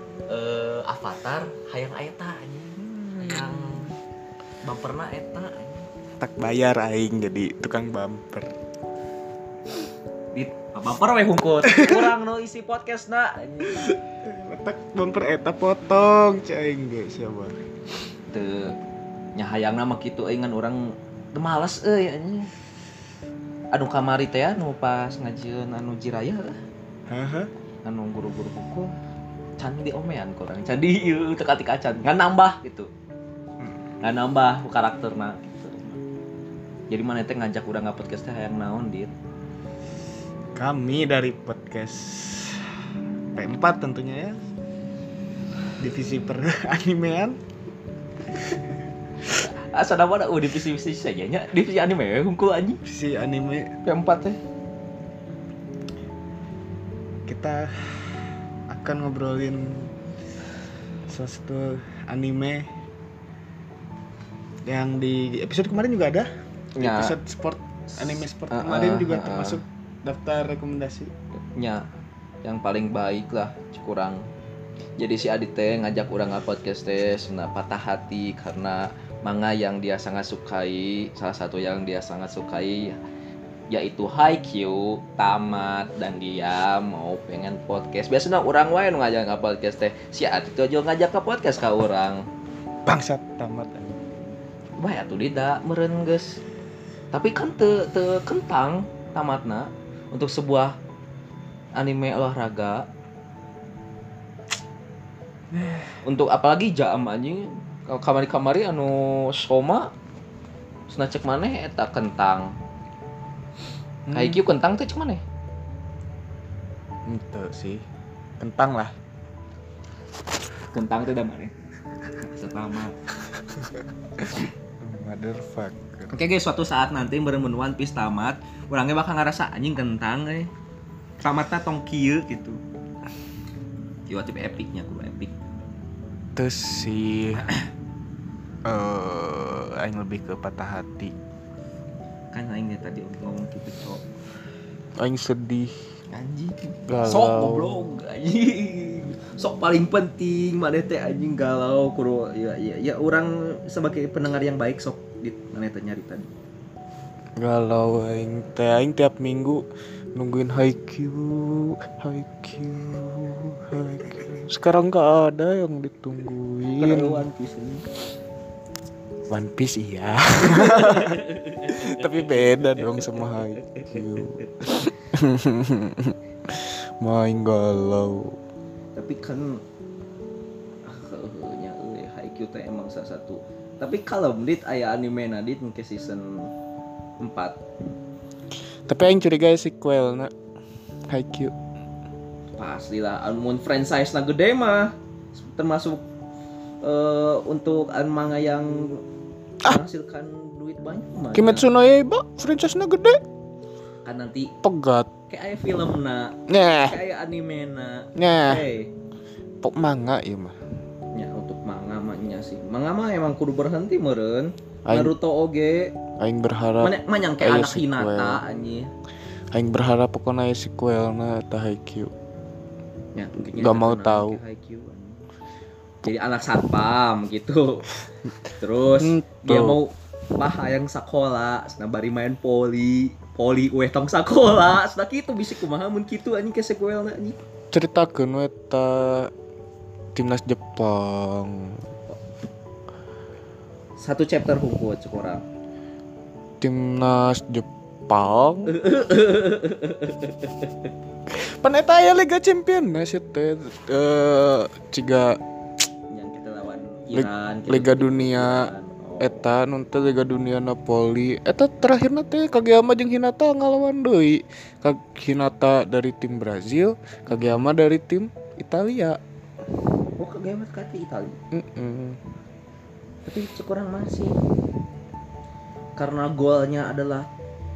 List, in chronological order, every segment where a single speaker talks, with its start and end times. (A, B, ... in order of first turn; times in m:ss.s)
0:00.3-0:03.9 A
0:02.8-0:03.8 B
0:04.6-0:05.8 A
0:06.2-0:08.5 B
0:10.3-0:13.8 A
0:11.6-0:12.1 B
0:13.6-0:17.6 B
0:18.3-0:18.8 A
0:19.3-0:22.5 A
0:23.7-0:26.6 A
0:27.1-0:27.5 B
0:27.8-0:28.9 A
0:29.6-0:32.9 A
0:34.0-0:36.0 A
0:36.9-0:39.1 A
0:40.6-0:42.6 B
0:43.3-0:44.4 B
0:45.8-0:47.4 B
0:49.3-0:52.8 A
0:52.8-0:53.7 B
0:53.8-0:54.4 A
0:57.3-0:57.9 B
0:58.7-0:59.9 B
1:01.1-1:02.7 B
1:04.6-1:11.1 B
1:06.8-1:07.2 A
1:08.1-1:09.6 A
1:11.5-1:11.8 A
1:12.4-1:14.2 A
1:15.0-1:23.0 A
1:23.7-1:32.2 A
1:32.8-1:34.2 B
1:34.8-1:36.4 A
1:37.1-1:40.8 A
1:41.8-1:42.9 A
1:46.0-1:49.9 A
1:50.9-1:52.5 A
1:54.1-1:54.4 B
1:54.1-1:55.2 A
1:57.0-1:57.8 B
1:58.4-1:58.9 B
2:00.7-2:01.5 A
2:02.2-2:03.0 A
2:04.2-2:06.1 B
2:06.1-2:10.5 A
2:11.2-2:12.6 A
2:14.1-2:15.3 A
2:16.4-2:17.5 B
2:18.7-2:21.1 B
2:22.3-2:24.0 A
2:25.0-2:25.7 B
2:26.1-2:36.3 A
2:26.9-2:28.0 B
2:37.4-2:39.6 B
2:40.2-2:47.2 B
2:46.8-2:47.8 A
2:49.3-2:58.4 B
2:50.5-2:54.0 A
2:59.0-2:59.6 A
3:00.8-3:06.5 A
3:07.2-3:07.6 A
3:08.9-3:10.3 B
3:11.1-3:11.5 B
3:12.6-3:16.0 A
3:16.8-3:19.0 A
3:19.6-3:21.7 A
3:21.3-3:23.2 B
3:24.0-3:24.5 A
3:24.6-3:25.1 B
3:25.3-3:28.9 A
3:26.5-3:27.0 B
3:28.2-3:28.6 B
3:29.6-3:30.5 B
3:31.1-3:35.9 A
3:34.8-3:35.1 B
3:36.2-3:38.4 B
3:36.8-3:38.9 A
3:39.5-3:42.1 B
3:43.1-3:45.2 A
3:43.6-3:44.4 B
3:46.0-3:47.9 A
3:48.6-3:57.4 A
3:49.0-3:49.8 B
3:57.7-3:59.3 B
4:00.1-4:01.9 B
4:04.0-4:05.4 A
4:06.6-4:08.8 B
4:08.7-4:10.9 A
4:11.3-4:15.4 B
4:16.1-4:19.5 A
4:17.1-4:29.2 B
4:27.3-4:27.7 A
4:30.2-4:31.4 A
4:31.5-4:32.2 B
4:33.2-4:34.4 A
4:36.0-4:37.3 A